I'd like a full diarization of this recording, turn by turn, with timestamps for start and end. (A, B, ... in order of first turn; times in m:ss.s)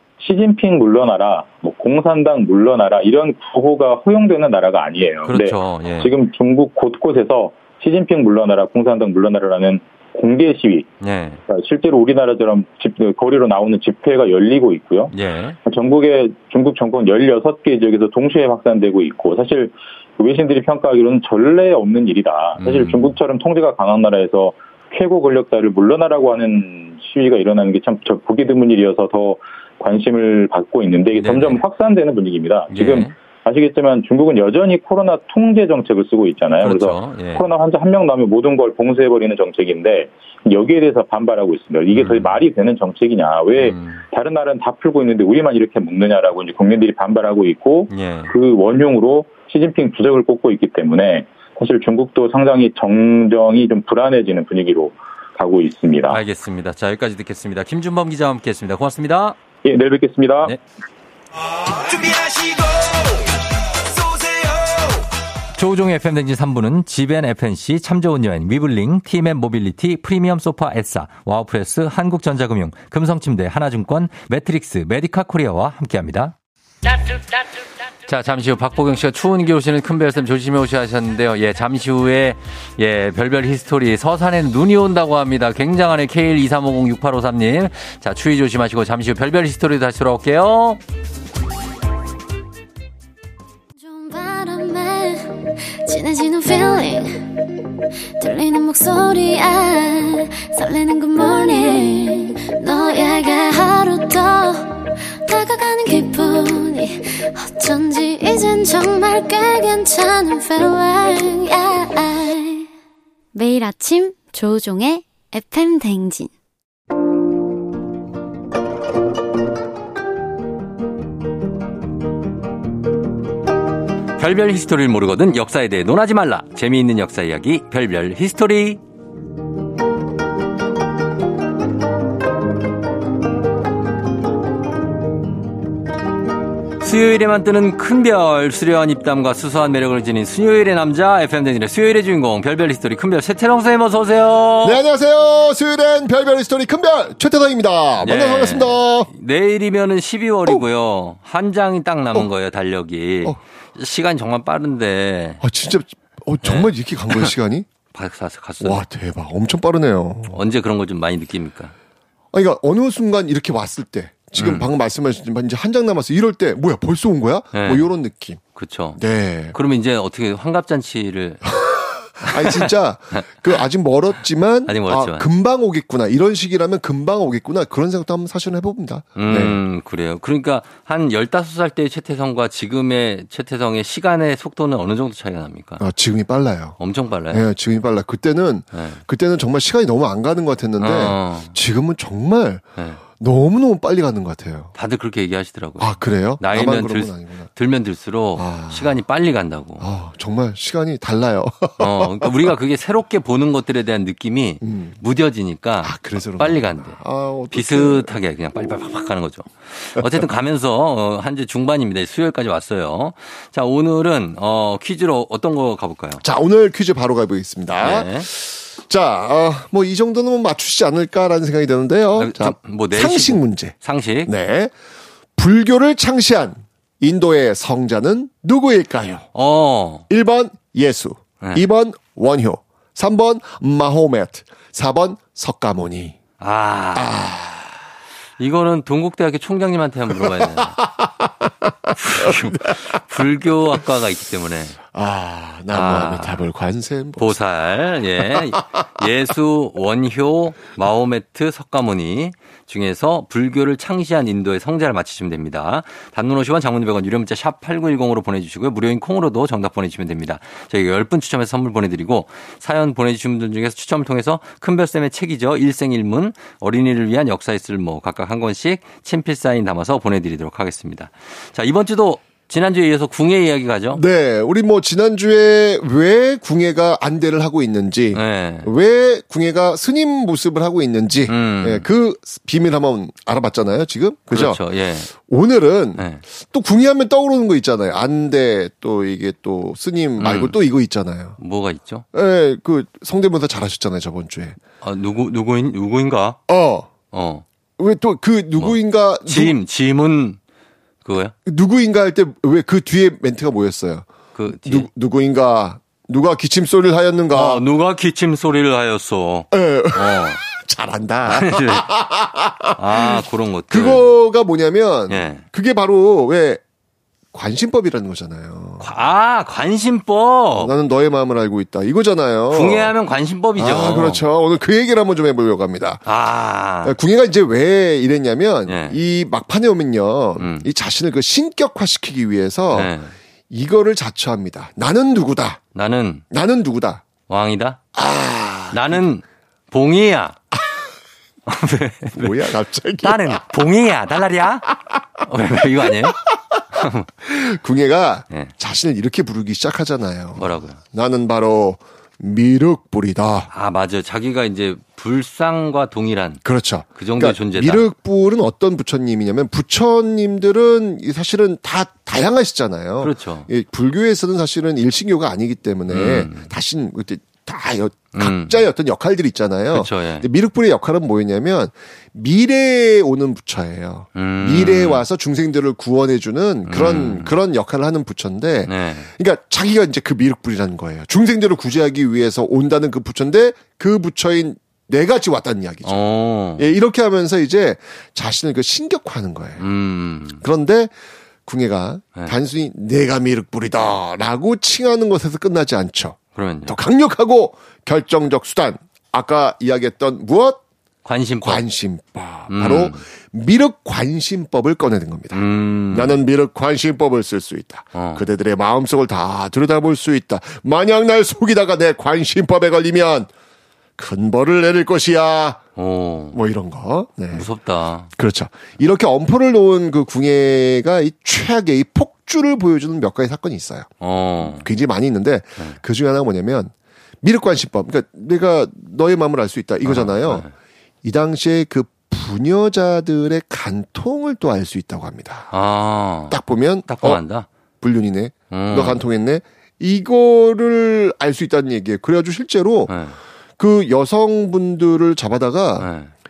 0:00.2-0:10.9 A
0:05.2-0:06.1 B
0:11.0-0:11.4 B
0:11.5-0:15.1 A
0:15.1-0:15.6 B
0:15.7-0:56.2 A
0:22.6-0:23.2 B
0:31.2-0:31.6 B
0:32.7-0:33.1 B
0:36.6-0:37.4 B
0:41.9-0:42.4 B
0:43.6-0:44.0 B
0:47.9-0:48.3 B
0:56.1-0:59.4 B
0:59.6-1:00.5 A
1:05.6-1:16.4 B
1:18.1-1:30.8 B
1:33.8-1:37.4 C
1:38.2-1:52.7 C
1:53.3-1:56.3 C
2:04.2-2:08.8 B
2:16.8-2:24.8 B
2:24.6-2:29.1 D
2:28.0-2:35.4 B
2:35.4-2:37.7 D
2:36.4-2:37.3 B
2:37.9-2:38.8 B
2:38.6-2:40.4 D
2:40.3-2:41.7 B
2:42.3-2:48.4 D
2:44.4-2:44.7 B
2:47.5-2:47.9 B
2:48.6-2:49.0 B
2:49.0-2:49.6 D
2:49.5-2:51.4 B
2:51.5-2:59.6 D
2:52.3-2:53.5 B
2:54.7-2:55.3 B
2:59.2-3:05.8 B
3:05.8-3:06.8 D
3:06.8-3:07.4 B
3:07.3-3:14.7 D
3:08.7-3:09.0 B
3:10.8-3:11.6 B
3:14.8-3:19.8 B
3:15.8-3:17.5 D
3:18.4-3:19.0 D
3:19.8-3:22.5 D
3:21.8-3:27.0 B
3:24.6-3:25.0 D
3:25.8-3:29.0 D
3:27.5-3:36.2 B
3:36.2-3:44.7 D
3:37.8-3:38.3 B
3:42.2-3:44.3 B
3:45.4-3:49.3 D
3:49.3-3:50.1 B
3:50.1-3:56.2 D
3:56.4-3:57.2 B
3:56.9-3:57.8 D
3:58.4-4:00.8 B
4:00.2-4:03.0 D
4:02.0-4:04.8 B
4:04.9-4:07.4 D
4:05.7-4:06.4 B
4:07.2-4:34.0 B
4:08.3-4:08.6 D
4:33.9-4:51.4 D
4:38.1-4:38.7 B
4:41.3-4:41.9 B
4:44.3-4:45.1 B
4:46.0-4:46.2 B
4:50.2-4:50.6 B
4:51.4-4:52.0 B
4:52.1-4:54.6 D
4:54.8-4:56.4 B
4:56.5-4:57.0 D
4:57.1-4:57.4 B
4:57.8-4:59.6 D
4:58.6-5:00.4 B
5:01.0-5:01.4 B
5:01.4-5:04.1 D
5:04.4-5:04.9 B
5:04.6-5:07.6 D
5:07.3-5:10.4 B
5:09.5-5:16.6 D
5:11.2-5:11.8 B
5:12.8-5:14.1 B
5:15.1-5:15.4 B
5:17.3-5:18.9 D
5:18.8-5:20.7 B
5:20.6-5:23.0 D
5:22.5-5:24.2 B
5:23.6-5:26.0 D
5:26.0-5:27.0 B
5:26.8-5:33.0 D
5:28.7-5:29.0 B
5:30.4-5:30.7 B
5:32.7-5:33.1 B
5:33.5-5:35.6 D
5:35.8-5:36.2 B
5:36.3-5:37.1 D
5:37.3-5:37.8 B
5:37.9-5:39.1 D
5:38.7-5:40.4 B
5:41.5-5:44.7 B
5:42.1-5:43.5 D
5:45.2-5:46.2 B
5:45.8-5:46.2 D
5:46.7-5:47.1 B
5:47.2-5:53.5 D
5:50.4-5:50.8 B
5:53.5-5:56.4 B
5:56.4-6:26.0 D
5:56.9-5:57.8 B
6:03.0-6:03.5 B
6:05.9-6:06.5 B
6:08.1-6:08.6 B
6:09.7-6:10.3 B
6:14.2-6:15.0 B
6:16.7-6:17.4 B
6:18.7-6:19.1 B
6:25.8-6:26.7 B
6:26.6-6:29.6 D
6:29.6-6:30.4 B
6:30.4-6:30.9 D
6:31.4-6:40.6 D
6:36.4-6:36.8 B
6:41.0-6:41.6 B
6:41.4-6:53.3 D
6:42.5-6:43.0 B
6:45.3-6:46.2 B
6:47.9-6:48.3 B
6:54.0-6:55.6 D
6:55.8-6:56.4 B
6:56.3-6:57.5 D
6:57.3-6:58.1 B
6:58.1-7:10.5 D
7:04.0-7:04.7 B
7:09.8-7:10.5 B
7:11.0-7:15.5 D
7:15.5-7:17.5 B
7:16.3-7:17.2 D
7:17.8-7:23.0 D
7:18.5-7:19.0 B
7:22.9-7:23.2 B
7:23.6-7:25.9 D
7:25.8-7:26.1 B